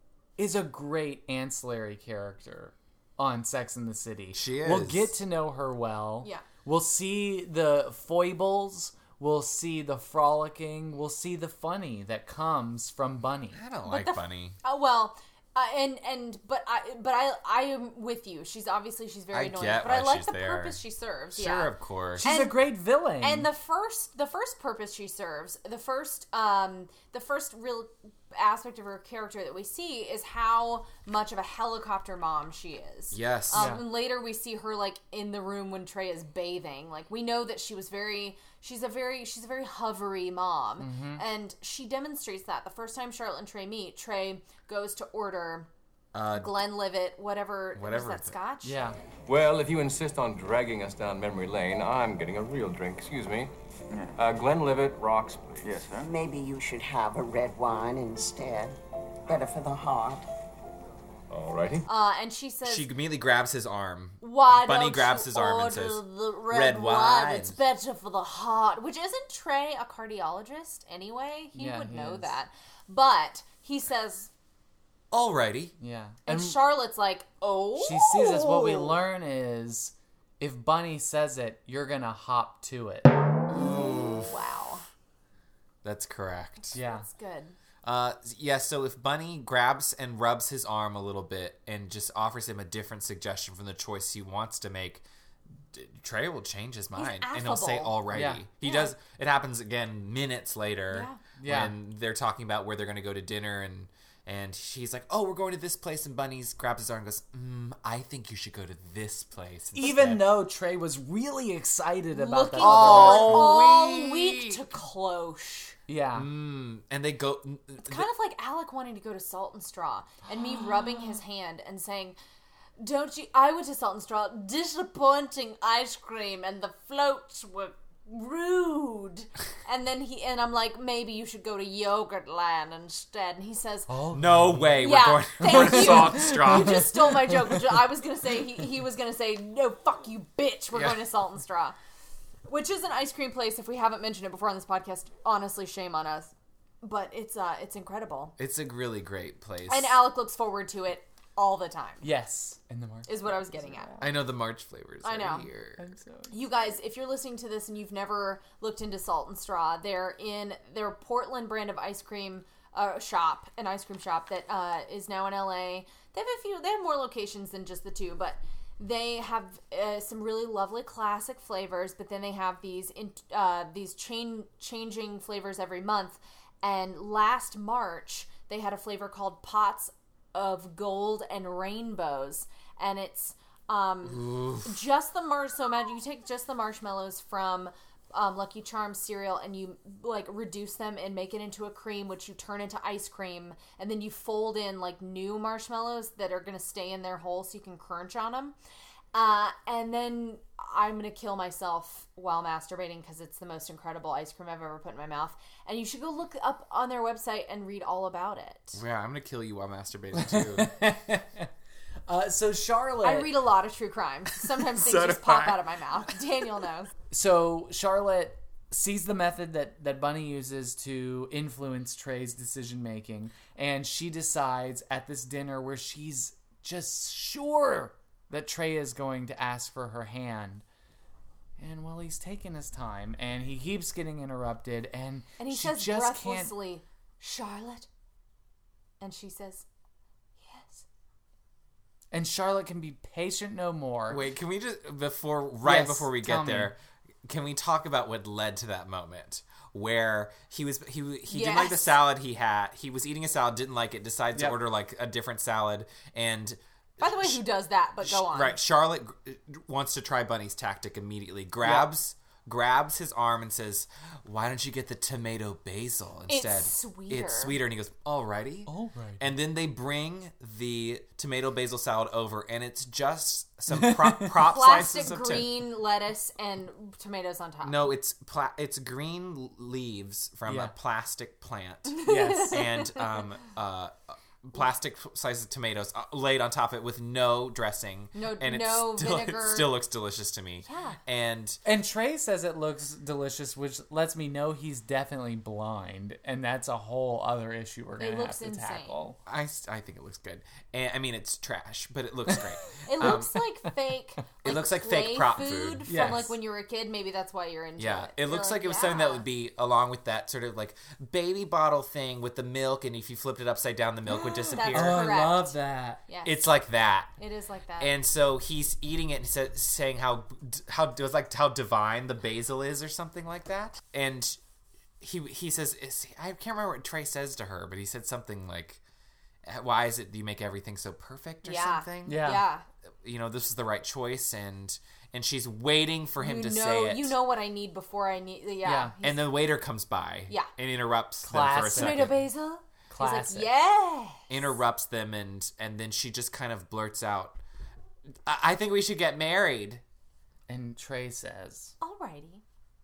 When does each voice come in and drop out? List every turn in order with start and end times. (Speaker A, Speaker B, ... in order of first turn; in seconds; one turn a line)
Speaker A: 0.4-13.6
Speaker B: 4.3-5.1
Speaker B: 13.5-14.6
Speaker C: 13.8-45.7
Speaker B: 19.3-20.8
Speaker B: 21.3-22.2
Speaker A: 22.2-23.5
Speaker B: 33.1-33.8
Speaker A: 33.5-33.8
Speaker A: 40.8-41.2
Speaker B: 46.1-46.5
Speaker C: 46.3-48.8
Speaker B: 47.8-48.4
Speaker A: 48.6-49.0
Speaker D: 49.3-53.5
Speaker D: 54.1-56.0
Speaker E: 55.9-60.2
Speaker D: 61.3-61.8
Speaker C: 61.9-62.9
Speaker B: 62.6-67.6
Speaker C: 64.2-74.3
Speaker A: 71.5-72.3
Speaker B: 75.1-75.7
Speaker A: 75.8-76.6
Speaker C: 76.2-79.0
Speaker A: 77.8-83.1
Speaker B: 83.5-84.3
Speaker C: 83.7-84.8
Speaker B: 85.8-86.8
Speaker A: 86.7-87.0
Speaker C: 86.8-87.5
Speaker B: 87.8-95.0
Speaker B: 95.7-110.4
Speaker C: 97.0-98.0
Speaker A: 98.1-98.4
Speaker C: 98.6-98.9
Speaker C: 100.9-101.2
Speaker A: 101.4-101.7
Speaker A: 109.8-113.5
Speaker C: 112.1-115.8
Speaker B: 112.6-114.6
Speaker A: 115.9-116.3
Speaker B: 116.1-118.1
Speaker C: 117.8-122.2
Speaker C: 122.8-133.9
Speaker A: 133.9-134.8
Speaker B: 134.1-137.1
Speaker C: 134.8-141.8
Speaker A: 135.5-136.8
Speaker B: 140.7-141.0
Speaker C: 142.5-148.3
Speaker B: 148.4-150.0
Speaker C: 149.7-152.0
Speaker A: 152.0-154.0
Speaker C: 153.1-153.9
Speaker B: 154.0-155.9
Speaker C: 155.0-155.5
Speaker A: 155.8-156.3
Speaker C: 156.3-198.5
Speaker B: 184.0-184.7
Speaker C: 199.1-208.8
Speaker B: 208.7-210.7
Speaker A: 210.1-211.5
Speaker A: 212.1-213.3
Speaker C: 213.0-216.9
Speaker B: 214.7-216.1
Speaker A: 217.1-230.6
Speaker A: 231.6-236.5
Speaker C: 235.4-237.9
Speaker C: 239.0-239.7
Speaker C: 240.4-240.8
Speaker A: 242.1-244.2
Speaker B: 244.1-257.4
Speaker A: 245.6-246.7
Speaker C: 251.3-251.9
Speaker C: 257.0-258.6
Speaker B: 258.0-275.5
Speaker A: 261.6-261.9
Speaker C: 266.3-267.6
Speaker A: 268.7-269.3
Speaker A: 273.7-274.3
Speaker C: 274.4-277.9
Speaker B: 277.6-291.6
Speaker A: 280.4-280.7
Speaker C: 281.9-283.1
Speaker A: 282.0-282.6
Speaker C: 288.1-289.7
Speaker C: 290.6-291.0
Speaker A: 291.6-299.2
Speaker C: 298.0-299.0
Speaker B: 299.2-303.4
Speaker C: 302.8-309.2
Speaker B: 304.4-306.2
Speaker A: 305.9-306.3
Speaker B: 307.8-315.3
Speaker C: 314.5-315.6
Speaker A: 314.7-316.0
Speaker C: 316.1-316.4
Speaker B: 316.2-317.1
Speaker C: 317.2-317.9
Speaker B: 317.8-324.4
Speaker B: 325.0-328.8
Speaker B: 329.4-332.3
Speaker C: 331.4-332.6
Speaker A: 332.0-332.4
Speaker B: 333.0-337.1
Speaker C: 336.2-339.3
Speaker A: 338.6-338.9
Speaker B: 339.0-342.2
Speaker A: 341.2-342.1
Speaker C: 341.7-344.4
Speaker A: 342.9-343.5
Speaker B: 344.3-347.4
Speaker B: 348.2-349.8
Speaker A: 350.5-351.7
Speaker C: 351.8-352.4